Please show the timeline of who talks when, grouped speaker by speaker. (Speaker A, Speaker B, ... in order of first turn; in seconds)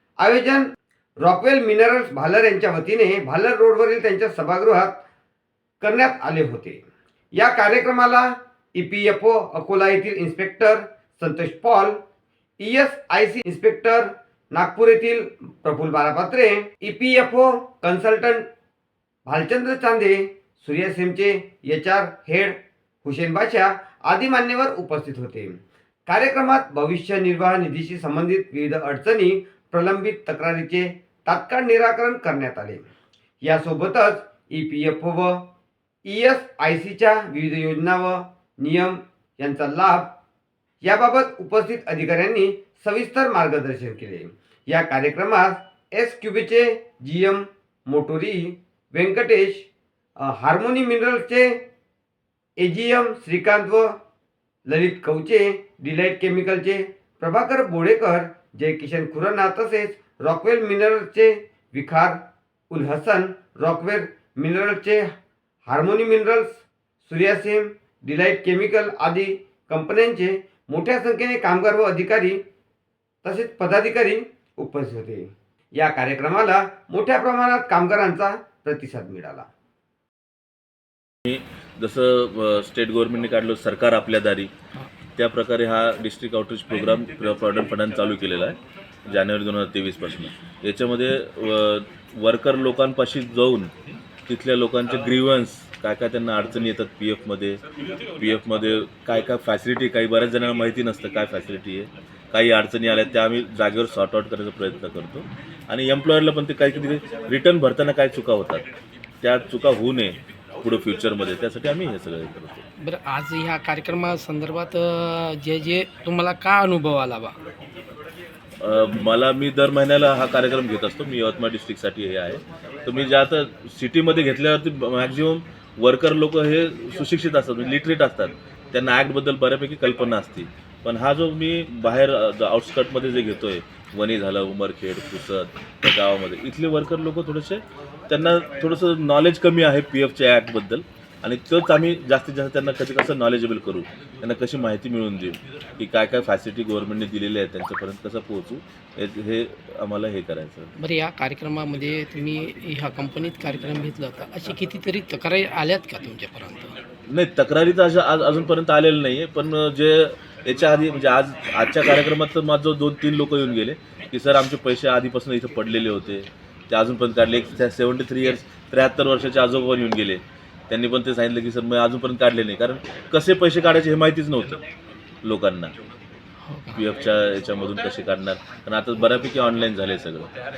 Speaker A: 0.2-0.7, 1.2-5.0, 5.8-12.0, 12.6-18.4, 19.3-32.8, 33.4-35.4, 36.0-40.1, 40.8-49.7, 50.2-51.6, 52.6-54.0, 54.7-62.2, 62.7-65.1, 65.7-72.4, 73.2-79.5
Speaker B: 81.2-84.5, 85.2-93.7, 94.3-97.6, 98.2-108.6, 109.2-112.6, 118.6-150.7, 157.1-174.6, 175.2-175.8, 176.7-180.3
Speaker C: 112.8-117.3, 150.8-156.8, 176.5-176.8